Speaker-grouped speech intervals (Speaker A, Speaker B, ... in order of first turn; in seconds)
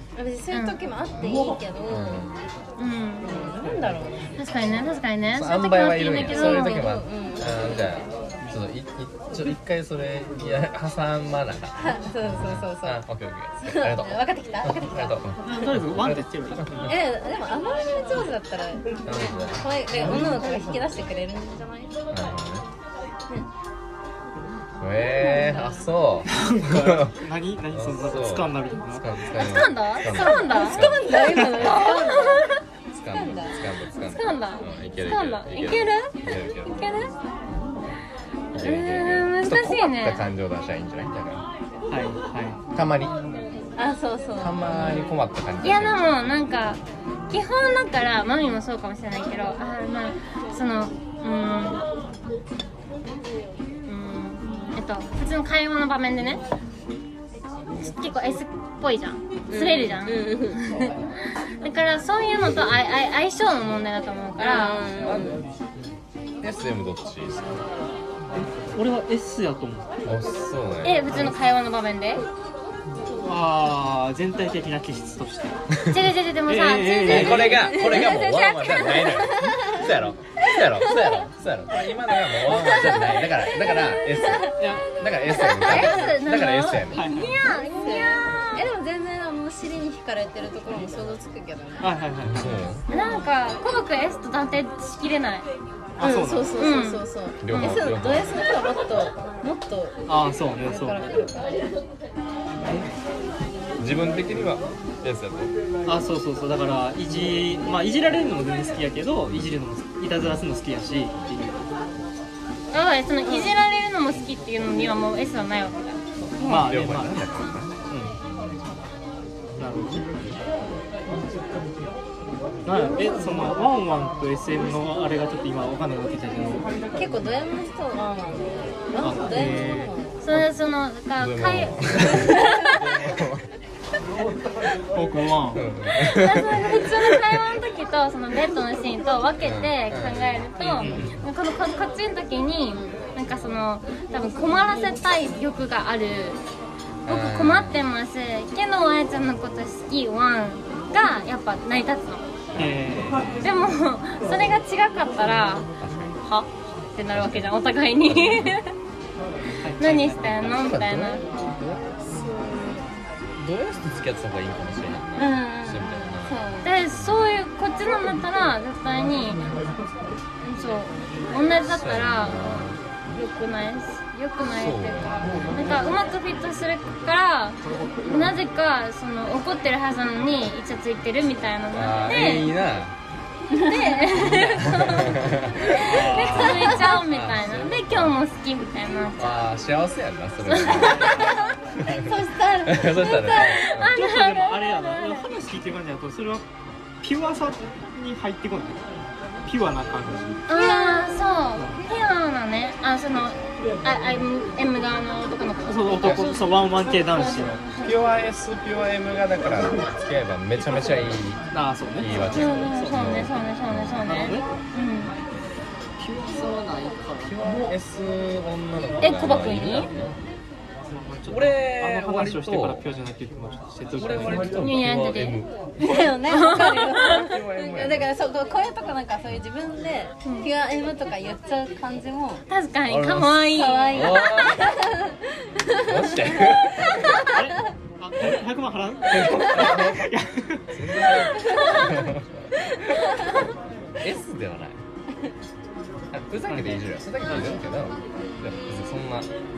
Speaker A: 0.1-2.3, 3.2-4.3, 6.2-7.8, 11.8-13.0, 13.6-15.2, 16.8-21.9, 25.2-25.7, 30.1-32.5, 33.1-33.6, 43.7-45.1, 59.5-60.6, 64.4-65.4, 77.5-79.9, 80.5-81.2, 82.4-84.6, 85.3-86.2, 87.0-91.9, 96.0-101.5, 126.9-130.2, 132.1-132.8, 142.7-143.0, 162.0-162.9, 165.2-166.7, 183.5-185.1, 186.2-186.9, 191.8-193.6, 200.5-201.2, 225.8-232.4, 233.5-237.5, 241.2-242.1, 242.7-243.4
Speaker B: 0.5-0.8, 2.8-3.3, 4.4-6.9, 29.4-30.8, 31.6-32.5, 34.0-36.1, 36.6-37.1, 38.6-40.2, 45.6-51.8, 53.9-56.4, 57.8-61.0, 61.6-64.9, 70.8-72.2, 75.9-78.3, 85.6-88.7, 92.9-95.5, 96.6-97.8, 112.7-116.0, 130.2-132.4, 136.0-146.4, 147.1-152.3, 153.4-155.7, 156.9-158.7, 159.8-161.2, 166.6-169.4, 170.4-182.5, 183.5-189.5, 190.5-191.4, 193.2-195.3, 200.5-208.0, 212.3-215.1, 219.0-219.9, 224.6-225.4, 226.3-227.2, 230.2-230.5, 232.5-234.2
Speaker C: 1.9-2.5, 5.3-16.9, 19.1-19.7, 22.1-22.6, 24.8-27.2, 27.7-31.9, 32.9-36.9, 38.5-41.4, 42.7-43.1, 44.4-46.1, 62.4-62.8, 65.0-65.3, 66.4-67.6, 70.0-71.3, 75.7-76.1, 77.0-87.0, 92.2-92.8, 97.4-98.4, 103.8-105.5, 116.4-117.8, 131.2-133.5, 135.5-137.4, 139.4-141.2, 147.1-147.9, 152.5-153.3, 155.8-156.2, 157.0-158.6, 160.4-161.8, 163.4-167.2, 171.7-172.8, 174.5-175.8, 181.7-182.9, 184.2-188.2, 189.2-191.3, 191.8-194.0, 207.8-211.4, 212.0-214.4, 217.2-220.2, 221.3-222.8, 224.0-226.2, 227.0-228.1, 232.9-234.9, 235.8-237.3, 239.1-240.1, 240.7-242.5, 244.0-244.8, 246.1-249.3
Speaker D: 15.4-17.0, 26.3-29.0, 31.1-31.6, 41.9-42.6, 68.7-70.0, 73.2-75.5, 76.5-77.7, 84.6-84.9, 86.9-87.4, 91.8-92.6, 96.0-96.5, 100.1-101.3, 102.6-102.9, 105.8-111.6, 116.4-117.2, 117.9-118.1, 119.6-120.0, 122.6-126.7, 129.0-129.9, 134.9-135.6, 140.6-141.1, 152.6-153.5, 159.6-160.6, 185.8-186.8, 190.7-191.5, 193.8-196.4, 197.0-198.8, 199.4-200.4, 205.7-207.6, 211.5-213.1, 214.0-214.4, 216.0-217.3, 220.8-224.5, 237.1-240.7, 246.5-247.6